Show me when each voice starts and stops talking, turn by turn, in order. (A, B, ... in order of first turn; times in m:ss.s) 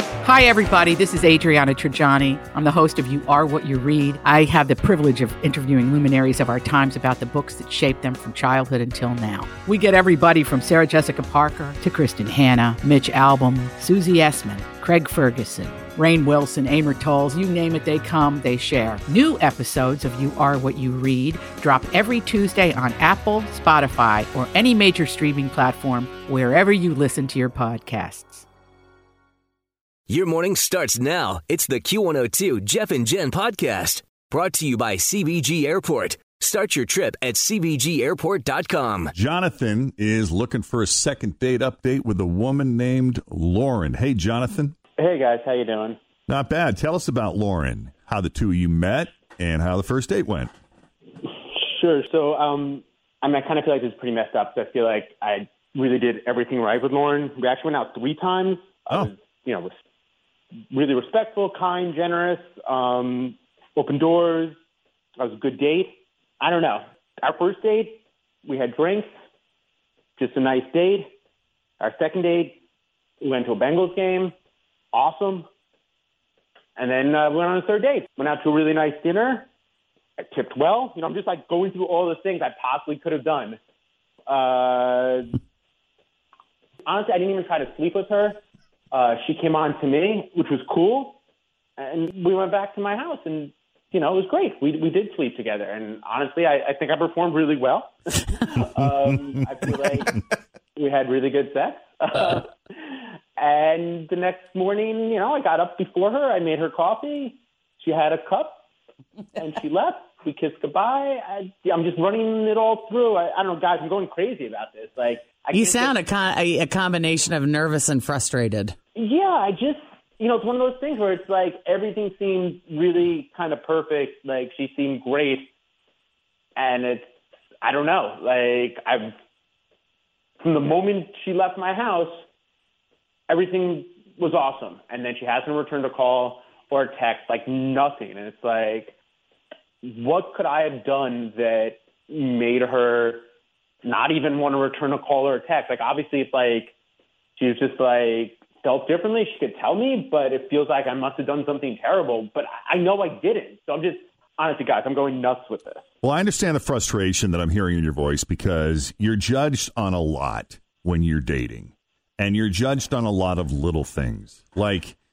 0:00.2-0:28.4 A
0:30.1-0:39.1 B
0:39.1-0:44.7 C
0:45.0-0:46.0 D
0:46.3-0:50.5 C
0:51.2-0:59.7 D
1:00.7-1:04.6 D
1:05.2-1:09.1 D
1:10.2-1:11.1 D
1:11.8-1:12.6 D
1:13.2-1:14.3 D
1:14.9-1:15.5 D
1:16.8-1:19.5 D
1:20.3-1:23.6 D
1:24.3-1:25.4 D
1:26.8-1:31.2 D
1:31.8-1:40.2 D
1:40.8-1:48.6 D
1:49.4-1:56.0 D
1:55.5-1:58.8 E
1:59.0-2:05.5 D
2:06.6-2:07.1 D
2:07.6-2:09.1 D
2:10.4-2:12.2 D
2:13.3-2:18.9 D
2:19.8-2:23.2 D
2:23.8-2:26.7 D
2:27.4-2:35.8 D
2:36.0-2:45.0 C